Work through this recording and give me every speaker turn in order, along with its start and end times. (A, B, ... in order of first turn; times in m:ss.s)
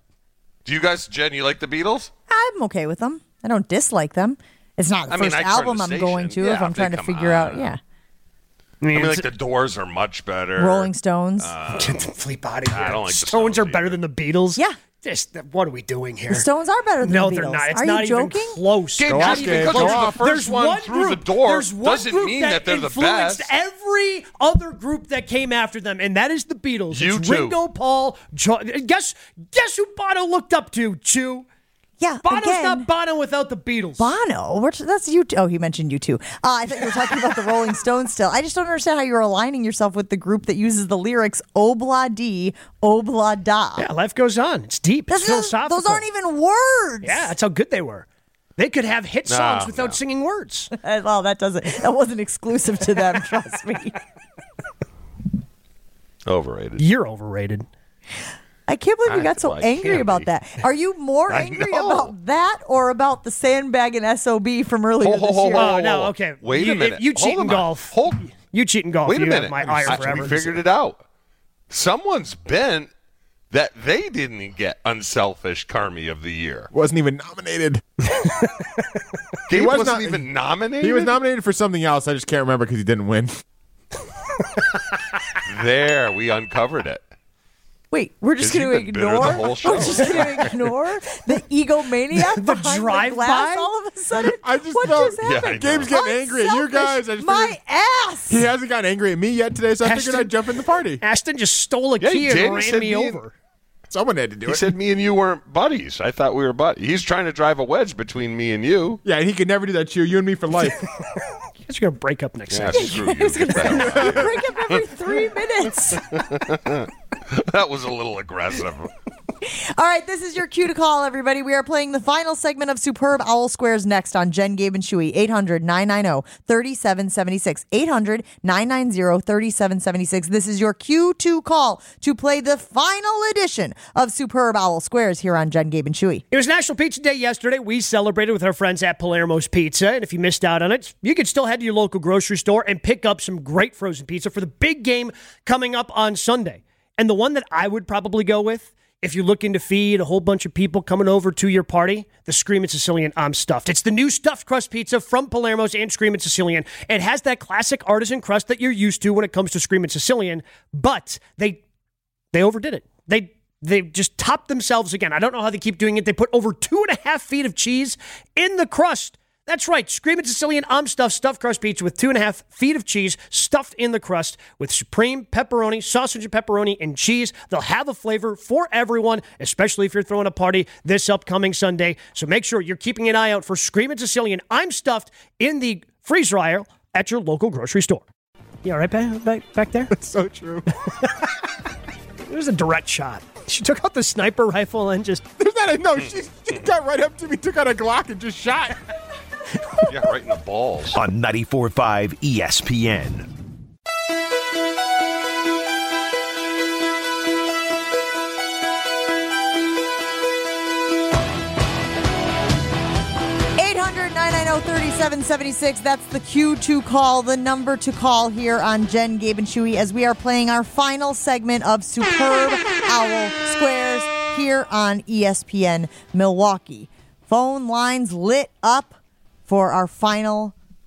0:00.6-0:02.1 A
0:02.3-0:07.8 B
0:05.1-0:07.7 A
0:08.8-0:09.3 C
0:08.9-0:12.1 A
0:10.6-0:11.5 B
0:11.7-0:16.4 C
0:12.7-0:14.0 A
0:16.3-0:18.6 B
0:17.0-0:31.4 C
0:19.0-0:23.5 A
0:19.1-0:20.2 D
0:26.9-0:27.6 A
0:32.0-0:32.8 B
0:32.2-0:34.1 C
0:34.0-0:43.9 B
0:43.8-0:46.0 C
0:45.1-0:47.3 B
0:47.0-0:48.0 C
0:48.6-0:50.7 C
0:49.3-0:50.0 A
0:50.8-0:54.0 B
0:56.2-0:56.8 A
0:56.8-0:57.7 C
0:58.7-1:05.7 B
0:59.0-1:00.3 A
1:01.3-1:02.1 A
1:05.0-1:08.2 A
1:05.5-1:10.6 C
1:09.0-1:11.0 A
1:11.7-1:12.9 A
1:13.5-1:16.7 A
1:16.7-1:17.8 D
1:19.5-1:21.1 A
1:19.5-1:20.2 D
1:20.8-1:23.4 D
1:25.4-1:27.0 A
1:27.9-1:38.4 B
1:28.4-1:30.5 A
1:32.3-1:33.7 C
1:34.4-1:37.6 D
1:35.2-1:35.9 A
1:38.3-1:41.0 D
1:39.8-1:40.3 C
1:41.0-1:43.3 C
1:42.0-1:43.2 A
1:43.9-1:44.7 D
1:44.4-1:49.0 A
1:49.0-1:50.8 D
1:51.6-1:53.9 C
1:52.5-1:54.8 A
1:52.7-1:56.1 B
1:53.9-1:54.2 D
1:55.9-1:58.9 A
1:59.5-2:16.2 B
2:16.3-2:41.6 C
2:42.3-3:08.0 C
3:08.6-3:09.9 C
3:09.9-3:10.7 D
3:12.3-3:15.2 C
3:15.4-3:18.8 D
3:19.9-3:21.0 A
3:20.9-3:23.3 E
3:33.6-3:49.0 B
3:49.5-3:50.5 B